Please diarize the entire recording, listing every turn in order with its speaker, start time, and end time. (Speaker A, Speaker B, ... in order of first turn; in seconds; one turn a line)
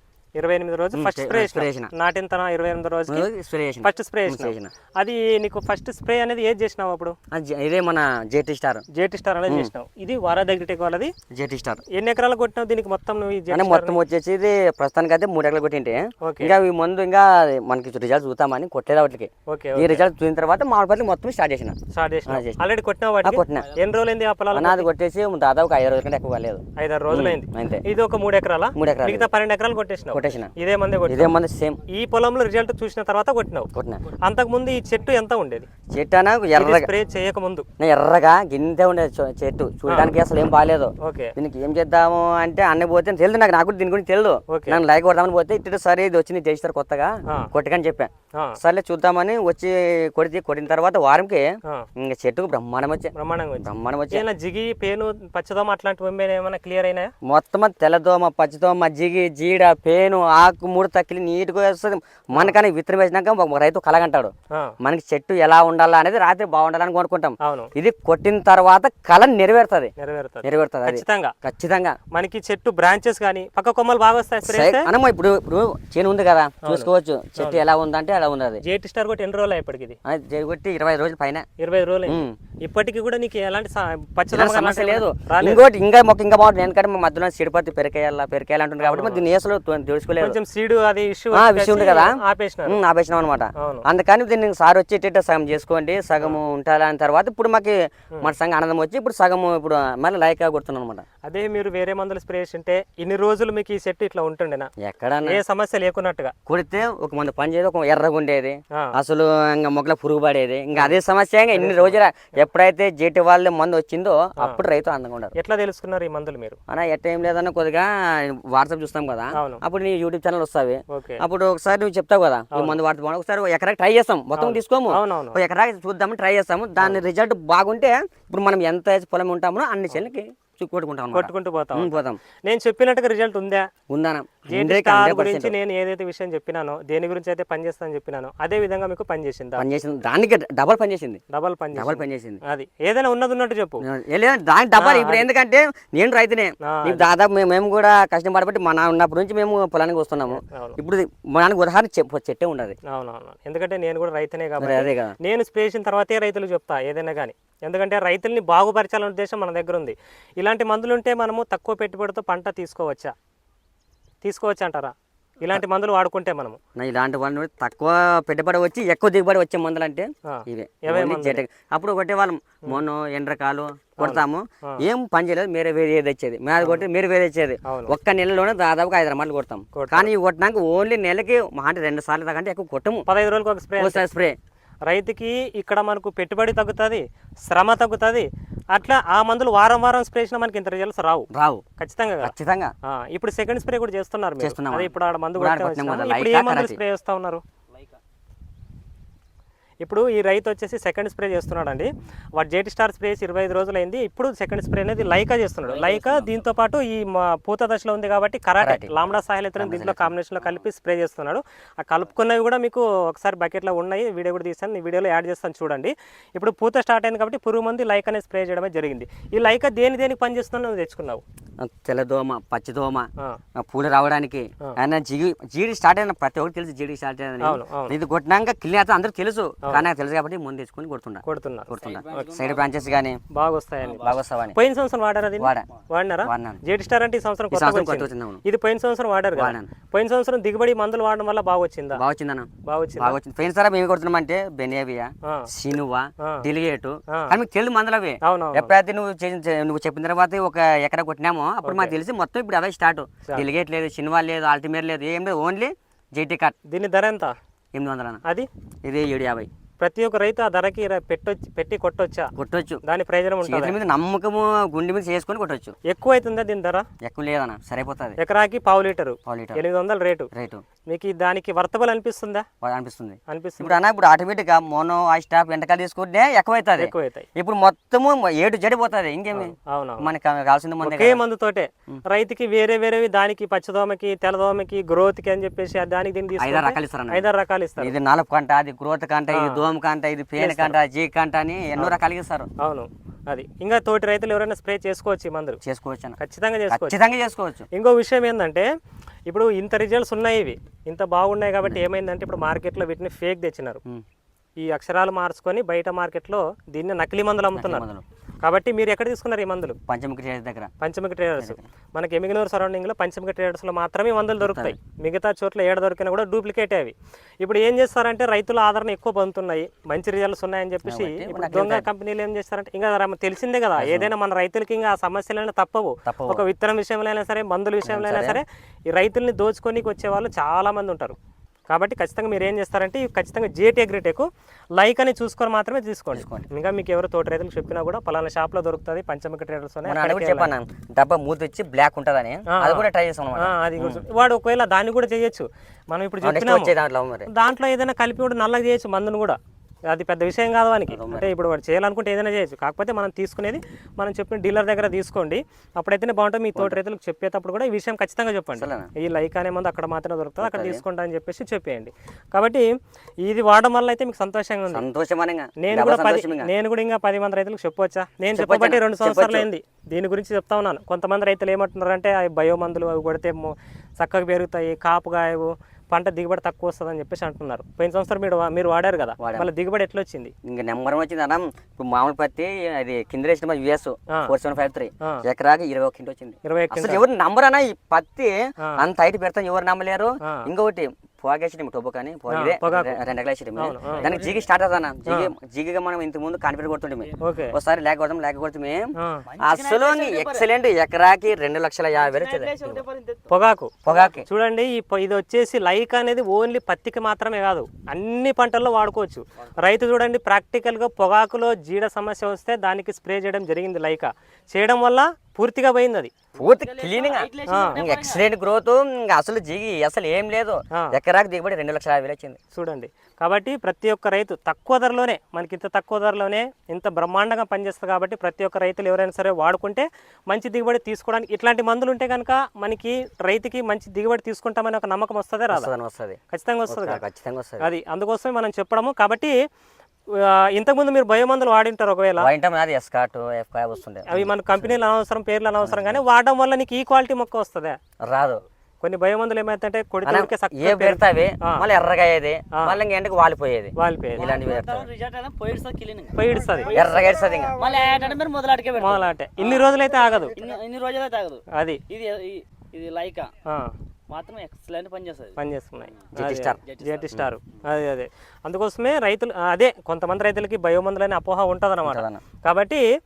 Speaker A: 0.3-3.3
Speaker B: 0.9-1.9
Speaker B: 3.1-4.7
Speaker A: 3.8-7.1
Speaker B: 7.3-8.8
Speaker A: 8.9-11.1
Speaker B: 11.3-11.8
Speaker A: 11.9-14.0
Speaker B: 13.5-21.8
Speaker A: 16.2-16.5
Speaker A: 19.5-20.0
Speaker A: 21.9-24.9
Speaker B: 22.3-22.6
Speaker B: 23.2-23.7
Speaker B: 24.5-27.8
Speaker A: 26.8-31.3
Speaker B: 28.7-29.3
Speaker B: 30.1-30.5
Speaker B: 31.1-31.8
Speaker A: 31.9-33.7
Speaker B: 33.7-34.0
Speaker A: 34.2-35.7
Speaker B: 35.9-36.9
Speaker A: 36.5-37.7
Speaker B: 37.8-51.4
Speaker A: 39.9-40.1
Speaker A: 41.0-41.3
Speaker A: 44.5-44.8
Speaker B: 52.0-54.2
Speaker A: 53.1-57.1
Speaker B: 57.2-69.9
Speaker A: 67.4-67.7
Speaker A: 70.0-71.3
Speaker B: 70.4-72.0
Speaker A: 72.1-74.9
Speaker B: 74.5-78.6
Speaker A: 76.6-77.6
Speaker A: 78.6-80.0
Speaker B: 80.0-81.5
Speaker A: 81.6-85.6
Speaker B: 82.0-82.3
Speaker B: 84.3-90.4
Speaker A: 88.8-89.2
Speaker A: 90.2-92.8
Speaker B: 91.3-101.0
Speaker A: 93.6-93.8
Speaker A: 101.2-104.7
Speaker B: 104.8-105.4
Speaker A: 105.2-106.3
Speaker B: 106.5-115.3
Speaker A: 111.5-112.0
Speaker A: 115.3-116.6
Speaker B: 116.7-132.2
Speaker A: 119.3-119.6
Speaker A: 120.9-121.2
Speaker A: 122.5-122.8
Speaker A: 124.4-125.4
Speaker A: 131.1-131.9
Speaker A: 132.4-133.7
Speaker B: 133.9-135.5
Speaker A: 134.5-139.7
Speaker B: 139.6-141.2
Speaker A: 141.3-143.8
Speaker B: 141.7-142.4
Speaker B: 143.8-152.8
Speaker A: 144.8-145.3
Speaker A: 146.6-147.1
Speaker A: 150.3-150.8
Speaker A: 152.9-163.1
Speaker B: 154.6-155.1
Speaker A: 164.2-166.6
Speaker B: 166.8-183.1
Speaker A: 170.3-171.4
Speaker A: 174.0-174.8
Speaker A: 177.7-177.9
Speaker A: 179.7-180.1
Speaker A: 183.1-184.1
Speaker B: 183.8-184.3
Speaker A: 184.9-192.3
Speaker B: 191.3-191.6
Speaker B: 192.2-192.7
Speaker A: 192.8-197.4
Speaker B: 194.4-196.8
Speaker C: 197.7-198.0
Speaker A: 199.8-221.2
Speaker C: 205.6-206.4
Speaker B: 208.6-208.9
Speaker B: 209.6-210.1
Speaker B: 221.6-233.2
Speaker A: 227.4-227.9
Speaker A: 231.2-232.3
Speaker C: 231.8-232.7
Speaker A: 233.3-242.0
Speaker C: 233.8-234.2
Speaker B: 234.0-234.6
Speaker B: 235.4-235.7
Speaker B: 236.2-236.6
Speaker B: 237.5-238.4
Speaker B: 239.3-239.7
Speaker B: 241.9-256.5
Speaker A: 242.7-243.2
Speaker A: 248.2-248.7
Speaker A: 251.6-251.9
Speaker A: 256.7-257.3
Speaker B: 257.7-258.2
Speaker B: 258.8-259.5
Speaker A: 259.8-262.3
Speaker B: 262.4-262.8
Speaker A: 262.8-263.8
Speaker B: 263.4-265.7
Speaker A: 265.9-266.9
Speaker B: 267.0-268.2
Speaker A: 268.2-270.3
Speaker B: 269.3-269.6
Speaker B: 270.3-270.6
Speaker A: 270.9-272.4
Speaker B: 272.6-281.2
Speaker A: 273.3-273.8
Speaker A: 276.8-277.3
Speaker A: 279.3-280.1
Speaker A: 280.8-287.9
Speaker B: 286.4-287.2
Speaker B: 287.8-292.5
Speaker A: 289.3-289.6
Speaker A: 290.4-290.7
Speaker A: 292.6-295.6
Speaker B: 295.6-296.2
Speaker A: 296.2-297.0
Speaker B: 296.7-297.6
Speaker A: 297.7-298.7
Speaker A: 299.3-303.8
Speaker A: 304.6-307.8
Speaker B: 307.5-308.0
Speaker A: 308.4-309.8
Speaker B: 309.9-310.7
Speaker A: 310.8-331.1
Speaker B: 314.4-314.7
Speaker B: 320.8-321.9
Speaker B: 323.8-324.1
Speaker B: 326.1-326.4
Speaker B: 327.8-328.4
Speaker A: 331.7-340.5
Speaker B: 336.1-336.5
Speaker B: 339.9-344.0
Speaker A: 342.5-342.9
Speaker A: 343.4-346.7
Speaker B: 346.2-347.3
Speaker A: 347.3-349.4
Speaker A: 349.9-364.8
Speaker B: 350.9-351.3
Speaker B: 358.5-358.9
Speaker B: 360.4-360.8
Speaker B: 364.7-366.5
Speaker A: 365.6-380.3
Speaker B: 368.3-369.5
Speaker B: 379.2-379.5
Speaker B: 380.4-402.8
Speaker A: 386.4-387.0
Speaker A: 392.3-393.0
Speaker A: 393.6-394.1
Speaker C: 393.9-394.4
Speaker A: 397.2-397.6
Speaker C: 399.2-400.5
Speaker C: 401.9-404.1
Speaker A: 403.3-416.1
Speaker B: 403.8-404.2
Speaker B: 416.4-422.4
Speaker C: 416.4-418.2
Speaker A: 417.5-417.8
Speaker A: 422.5-435.7
Speaker B: 435.5-437.7
Speaker A: 436.3-437.0
Speaker A: 437.6-439.3
Speaker A: 440.1-442.3
Speaker B: 442.2-444.8
Speaker A: 444.1-447.8
Speaker B: 445.6-446.0
Speaker B: 448.0-448.4
Speaker A: 448.8-451.6
Speaker B: 450.0-454.9
Speaker A: 453.8-454.3
Speaker C: 454.1-459.8
Speaker A: 456.1-456.7
Speaker B: 456.7-457.5
Speaker A: 458.8-460.4
Speaker C: 460.3-463.3
Speaker A: 461.5-461.8
Speaker A: 463.4-463.7
Speaker C: 464.1-465.4
Speaker A: 465.4-472.8
Speaker B: 466.1-466.6
Speaker C: 466.6-467.1
Speaker B: 471.8-472.2